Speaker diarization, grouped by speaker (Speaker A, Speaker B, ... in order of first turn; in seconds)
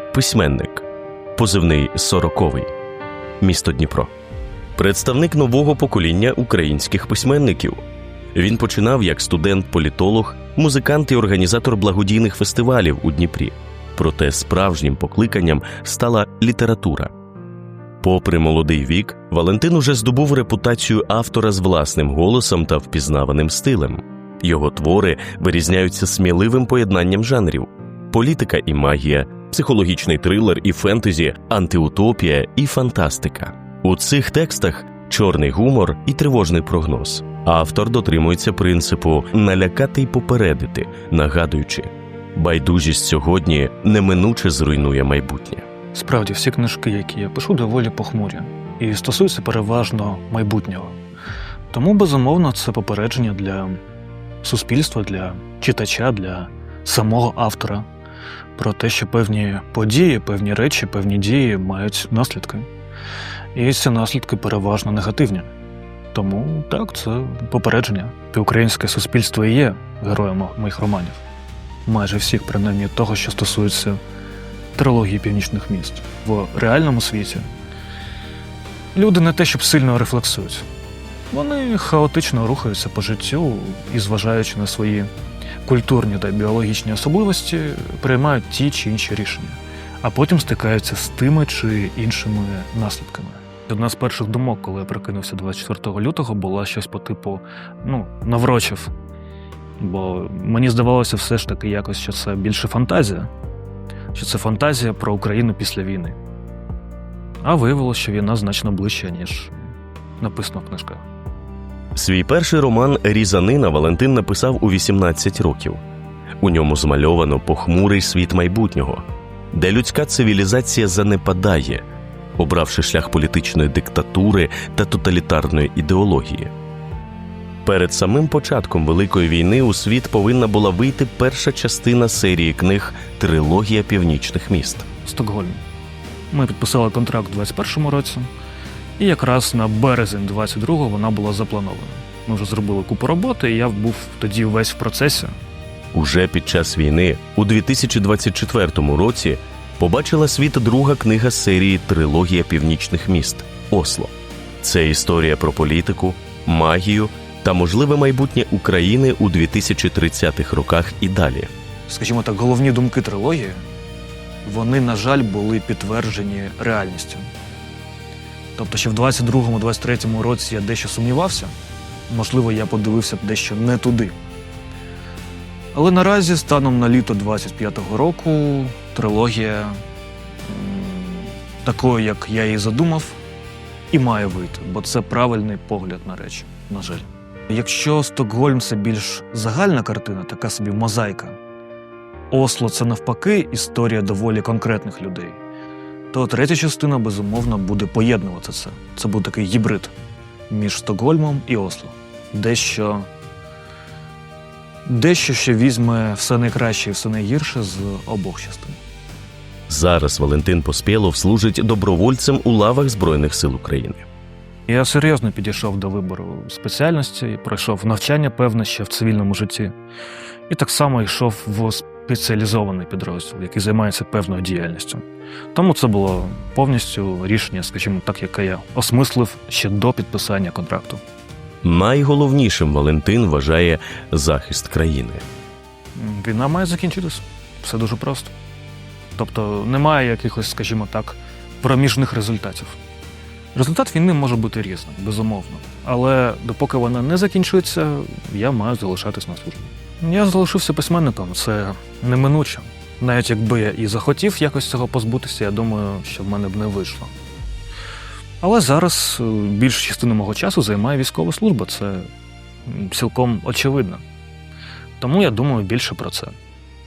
Speaker A: 0.1-2.7, 3.4-4.1, 4.8-7.8, 8.3-17.1, 18.0-45.6, 112.0-115.8, 116.4-121.8, 122.4-126.5, 127.7-134.8, 145.9-161.5, 209.7-214.1, 231.6-235.2
Speaker B: 45.9-51.0, 51.7-53.8, 54.4-57.9, 58.6-62.7, 63.5-65.5, 66.1-71.2, 71.9-74.0, 74.8-77.5, 79.0-80.7, 81.3-85.1, 85.6-98.9, 99.8-103.3, 104.1-106.2, 107.4-111.0, 135.1-135.6, 136.3-138.3, 139.0-145.3, 161.9-163.6, 164.4-167.3, 168.6-171.6, 172.1-174.2, 175.7-179.8, 180.4-183.2, 183.9-191.4, 192.3-195.4, 196.1-199.9, 200.5-203.1, 204.8-208.8, 214.7-219.7, 220.5-231.0, 235.9-238.3, 239.2-242.8, 243.5-257.1, 258.4-262.1, 262.7-264.0, 265.0-266.4